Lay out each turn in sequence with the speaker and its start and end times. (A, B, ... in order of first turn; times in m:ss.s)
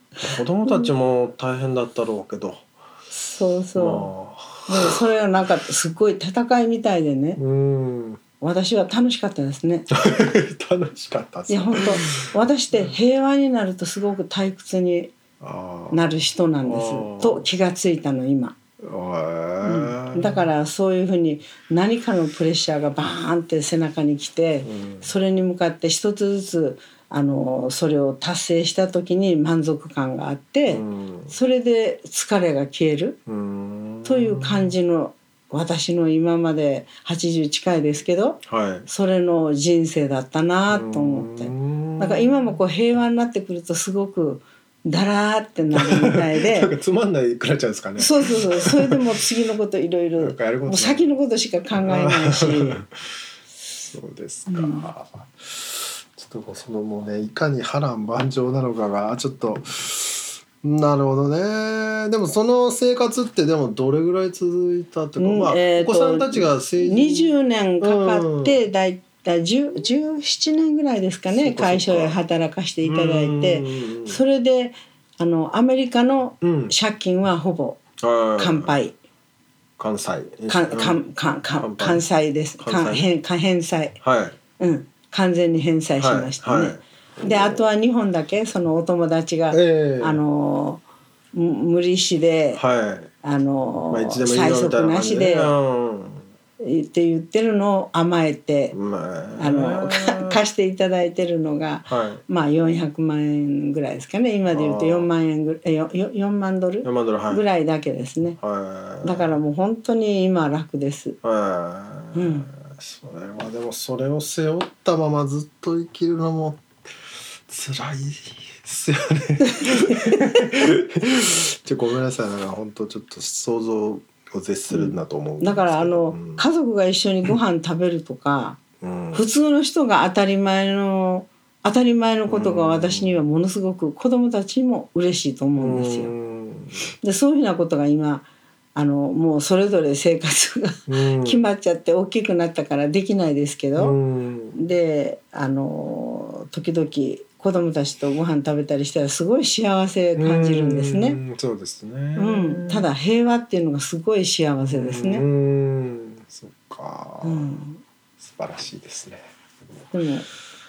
0:00.2-0:02.7 A
0:03.1-0:04.1 B
0:03.8-0:05.0 A
0:04.6-0:07.4 B
0:07.4-0:08.2 A
0:08.4-0:09.9 B
0:09.9-0:12.9 A
0:11.5-0:15.1 B
0:15.4-0:16.0 A
0:15.9-0:18.6 B
0:16.6-0:17.5 A
0:18.8-0:20.5 A
0:19.6-0:33.2 B
0:24.6-0:25.1 A
0:30.7-0:31.3 A
0:33.3-0:34.7 A
0:34.0-0:46.7 B
0:38.5-0:38.9 A
0:40.7-0:42.6 A
0:45.7-0:49.1 A
0:48.0-0:52.8 B
0:50.2-0:51.1 A
0:51.8-0:52.9 A
0:53.8-1:08.6 A
0:54.5-0:54.9 B
1:05.2-1:17.8 B
1:11.3-1:12.2 A
1:12.8-1:14.2 A
1:16.4-1:16.7 A
1:18.0-1:18.8 A
1:18.4-1:19.0 B
1:19.8-1:21.0 A
1:20.5-1:24.0 B
1:21.6-1:22.0 A
1:22.6-1:23.1 A
1:24.0-1:24.4 A
1:24.6-1:30.8 B
1:26.0-1:27.6 A
1:29.5-1:30.2 A
1:31.3-1:32.6 B
1:32.6-1:33.1 A
1:33.2-1:35.6 B
1:33.9-1:36.2 A
1:36.6-1:38.8 B
1:38.7-1:40.4 A
1:39.4-1:48.4 B
1:41.9-1:42.2 A
1:44.5-1:45.1 A
1:46.8-1:47.4 A
1:48.4-1:49.3 A
1:49.0-1:51.2 B
1:51.2-1:56.6 A
1:52.1-1:52.5 B
1:57.5-2:06.5 A
1:59.4-2:00.4 B
2:04.7-2:16.1 B
2:08.8-2:09.2 A
2:12.3-2:13.2 A
2:15.6-2:16.8 A
2:17.0-2:24.0 B
2:20.9-2:21.4 A
2:23.8-2:24.6 A
2:24.6-2:31.2 B
2:30.2-2:32.9 A
2:32.2-2:35.3 B
2:34.7-2:37.5 A
2:37.2-2:37.8 B
2:38.2-2:39.2 A
2:39.9-2:40.3 B